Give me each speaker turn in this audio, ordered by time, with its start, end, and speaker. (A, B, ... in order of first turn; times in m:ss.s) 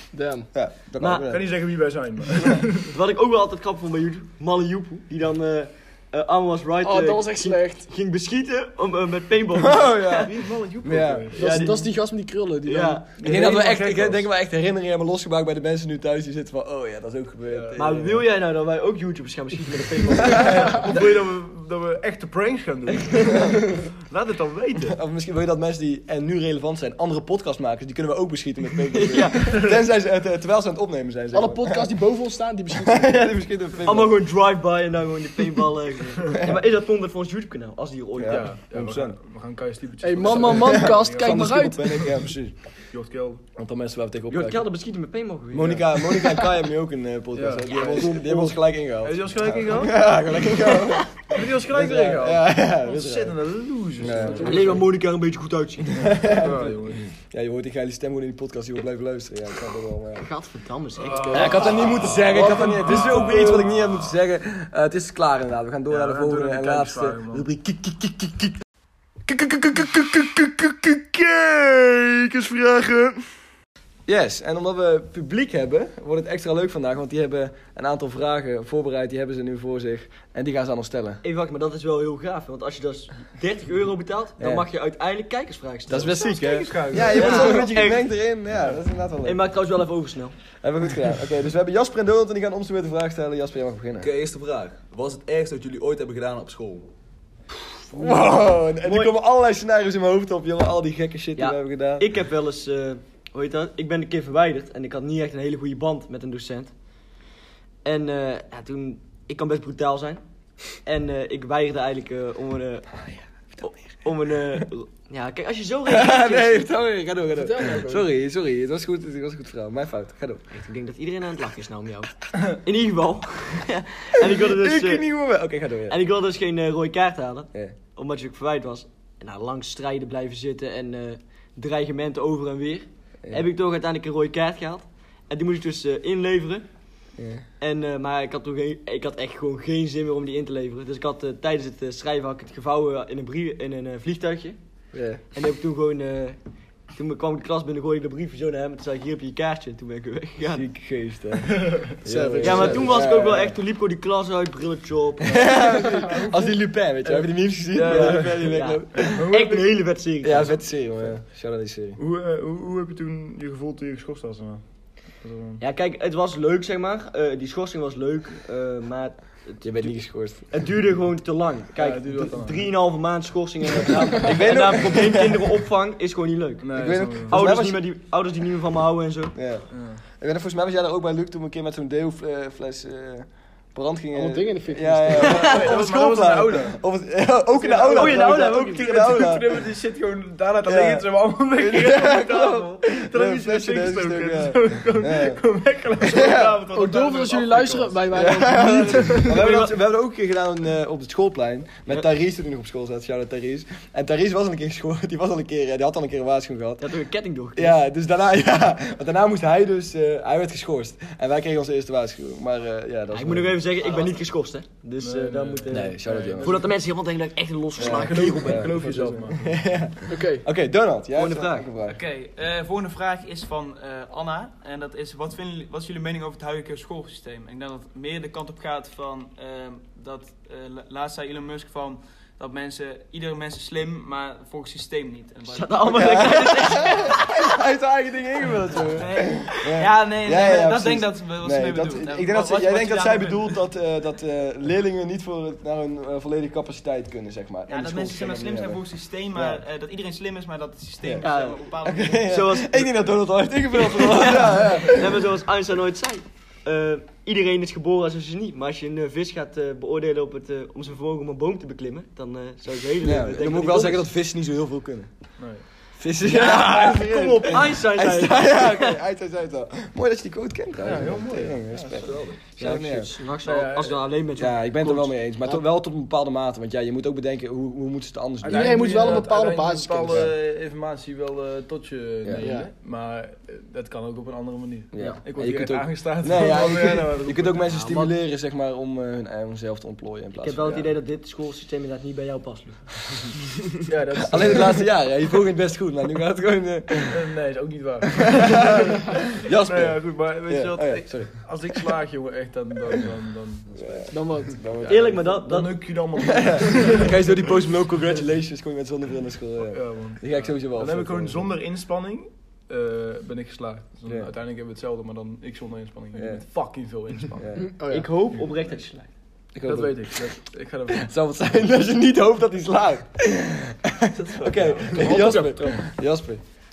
0:00.1-0:00.5 A
0:00.5-0:01.5 B
0:01.0-0:01.3 C
0:01.3-0:02.9 D
0:02.9-0:10.3 C
0:06.8-0:07.9 A
0:09.5-0:11.3 B
0:10.2-0:11.7 D
0:11.4-0:13.0 A
0:11.4-0:11.9 C
0:12.6-0:13.4 C
0:13.2-0:14.2 D
0:13.2-0:18.2 B
0:17.5-0:18.1 D
0:17.8-0:20.9 C
0:20.2-0:20.9 B
0:20.5-0:25.0 D
0:24.9-0:31.9 B
0:28.9-0:29.7 C
0:29.4-0:29.7 D
0:31.3-0:33.2 A
0:32.7-0:34.2 B
0:33.8-0:38.5 C
0:38.2-0:39.2 B
0:38.3-0:42.2 D
0:40.0-0:42.0 A
0:40.2-0:42.5 B
0:42.9-0:43.4 D
0:43.6-0:44.6 B
0:44.3-0:46.2 C
0:45.5-0:53.3 B
0:47.3-0:48.2 D
0:47.7-0:48.6 C
0:49.0-0:50.7 D
0:51.3-0:54.9 D
0:54.0-0:54.8 B
0:54.4-0:56.3 C
0:55.9-1:00.3 B
0:56.0-0:57.1 D
1:00.2-1:01.8 C
1:01.0-1:04.1 D
1:01.3-1:08.6 B
1:05.9-1:07.5 D
1:09.3-1:13.2 B
1:14.1-1:21.2 B
1:21.2-1:26.2 C
1:24.4-1:24.7 B
1:25.9-1:29.4 B
1:25.9-1:27.7 D
1:27.0-1:28.0 C
1:29.2-1:30.4 C
1:30.6-1:34.1 B
1:34.0-1:36.9 E
1:37.9-1:42.0 B
1:37.9-1:39.1 C
1:41.4-1:46.7 C
1:47.8-1:50.2 C
1:50.7-1:52.9 C
1:53.0-1:54.0 B
1:53.6-1:56.7 C
1:55.8-2:00.4 B
1:57.4-1:58.0 A
2:00.5-2:05.0 C
2:04.3-2:06.0 B
2:05.9-2:16.7 C
2:17.2-2:17.4 B
2:17.6-2:24.6 C
2:24.9-2:25.2 B
2:25.3-2:26.4 C
2:26.9-2:30.6 C
2:30.4-2:33.6 B
2:31.5-2:31.8 D
2:32.0-2:32.9 A
2:32.4-2:32.8 D
2:32.4-2:35.7 C
2:35.2-2:39.3 B
2:35.2-2:39.8 D
2:37.7-2:40.6 C
2:40.2-2:42.0 B
2:42.0-2:44.6 D
2:45.2-2:45.6 D
2:45.6-2:59.3 C
2:49.6-2:50.5 B
2:51.8-2:52.7 D
2:54.1-2:55.6 B
2:56.6-2:57.4 D
2:56.7-2:57.8 B
2:59.3-3:09.6 B
2:59.7-3:00.0 D
3:04.1-3:05.4 A
3:05.2-3:06.8 D
3:07.7-3:18.0 D
3:07.8-3:08.9 C
3:10.6-3:15.4 B
3:16.0-3:16.6 B
3:16.7-3:19.2 A
3:18.1-3:26.9 B
3:19.3-3:19.7 C
3:26.8-3:27.8 C
3:27.5-3:33.7 B
3:33.1-3:38.9 C
3:33.8-3:34.2 F
3:35.0-3:36.6 D
3:35.7-3:36.6 B
3:37.8-3:39.5 D
3:37.8-3:42.0 B
3:40.1-3:40.4 A
3:41.1-3:41.7 C
3:41.8-3:56.1 F
3:55.5-3:57.4 C
3:55.8-4:08.8 B
3:59.0-3:59.7 C
3:59.1-4:03.6 F
4:07.7-4:12.3 F
4:09.3-4:09.6 B
4:11.0-4:11.3 B
4:11.2-4:11.7 C
4:11.8-4:15.2 B
4:12.2-4:13.2 C
4:13.7-4:24.0 C
4:23.0-4:25.1 B
4:25.4-4:25.6 D
4:26.0-4:33.1 B
4:26.2-4:29.0 C
4:30.8-4:31.9 D
4:31.7-4:32.4 E
4:32.5-4:35.2 C
4:33.4-4:34.0 D
4:34.4-4:39.3 B
4:38.4-4:47.7 D
4:38.4-4:40.3 A
4:42.4-4:42.7 A
4:44.9-4:50.9 B
4:47.7-4:48.1 C
4:50.4-4:53.3 C
4:53.8-4:54.9 D
4:54.2-4:57.2 B
4:57.0-5:04.2 D
4:58.2-5:01.9 B
5:03.7-5:05.2 B
5:04.1-5:04.6 A
5:04.8-5:05.9 C
5:04.8-5:07.3 D
5:06.2-5:11.5 B
5:09.6-5:17.5 D
5:16.1-5:16.4 B
5:17.4-5:17.6 B
5:17.6-5:18.1 A
5:17.9-5:19.1 C
5:19.5-5:20.3 B
5:19.6-5:21.1 D
5:20.9-5:26.4 B
5:24.6-5:25.8 D